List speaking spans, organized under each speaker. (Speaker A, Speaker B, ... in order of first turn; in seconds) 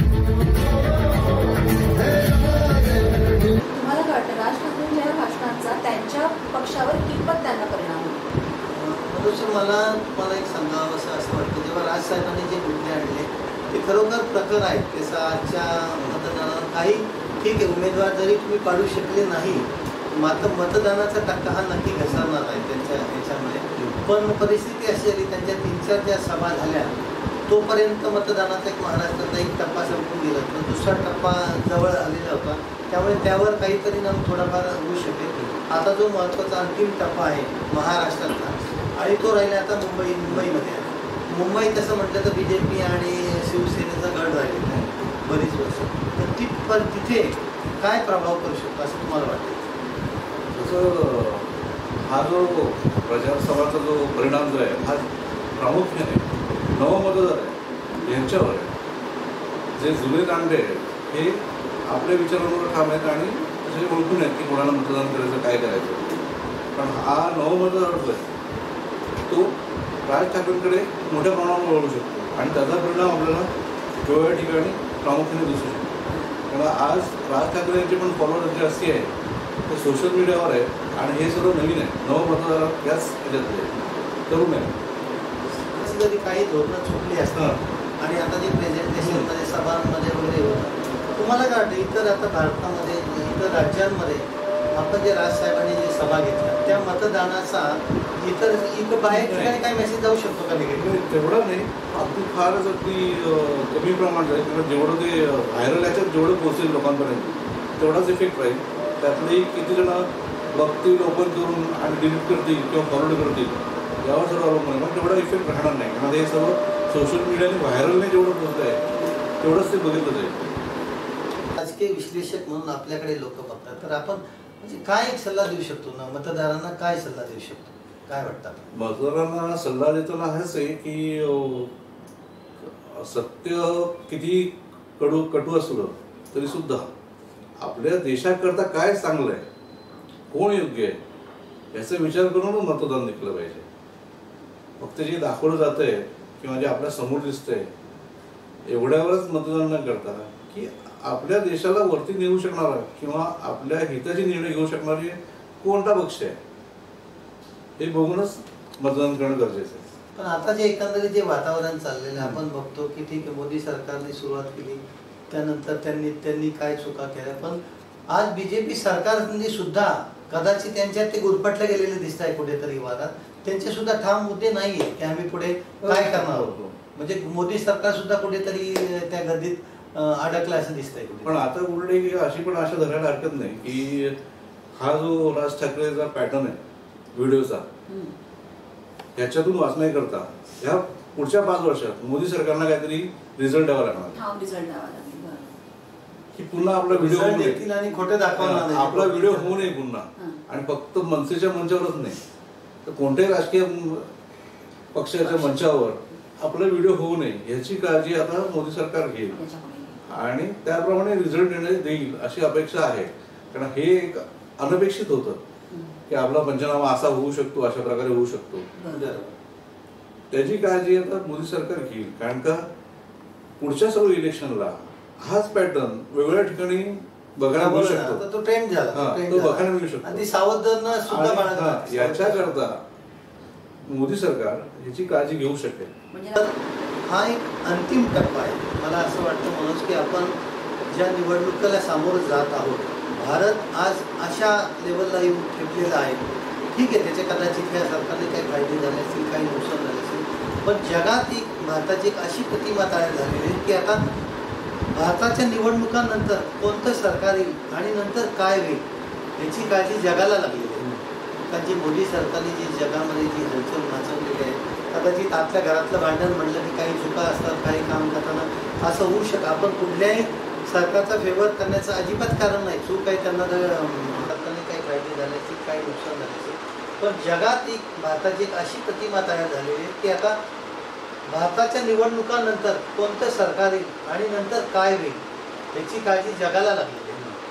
Speaker A: 3.6-8.4, 57.9-58.2, 76.1-76.5, 187.9-188.2, 194.1-195.6, 205.2-205.6, 209.3-210.0, 215.7-216.0, 218.8-219.1, 236.1-236.5
Speaker B: 8.6-26.9, 27.5-49.6, 85.7-101.0, 121.6-128.7, 160.2-181.4, 196.6-199.8, 218.9-219.3, 227.5-232.6, 236.3-254.1, 254.9-258.9, 259.4-260.9, 261.5-280.4, 281.3-285.2, 285.7-287.2
Speaker C: 23.8-24.0, 50.5-58.7, 59.8-66.1, 66.8-68.3, 69.3-73.5, 74.0-76.0, 76.5-79.1, 79.7-84.7, 87.3-87.6, 89.0-89.3, 99.1-99.7, 100.8-118.8, 119.4-120.5, 128.7-131.7, 132.6-136.9, 137.6-139.5, 140.3-141.0, 141.7-143.7, 144.8-147.7, 148.7-156.4, 157.8-159.8, 175.8-176.8, 181.2-184.2, 184.7-186.6, 187.2-187.7, 189.2-194.2, 196.3-197.6, 198.4-202.2, 202.8-204.1, 204.9-209.4, 210.1-215.4, 216.1-218.7, 220.3-222.7, 223.6-228.2, 228.9-230.2, 231.0-232.8, 233.8-235.9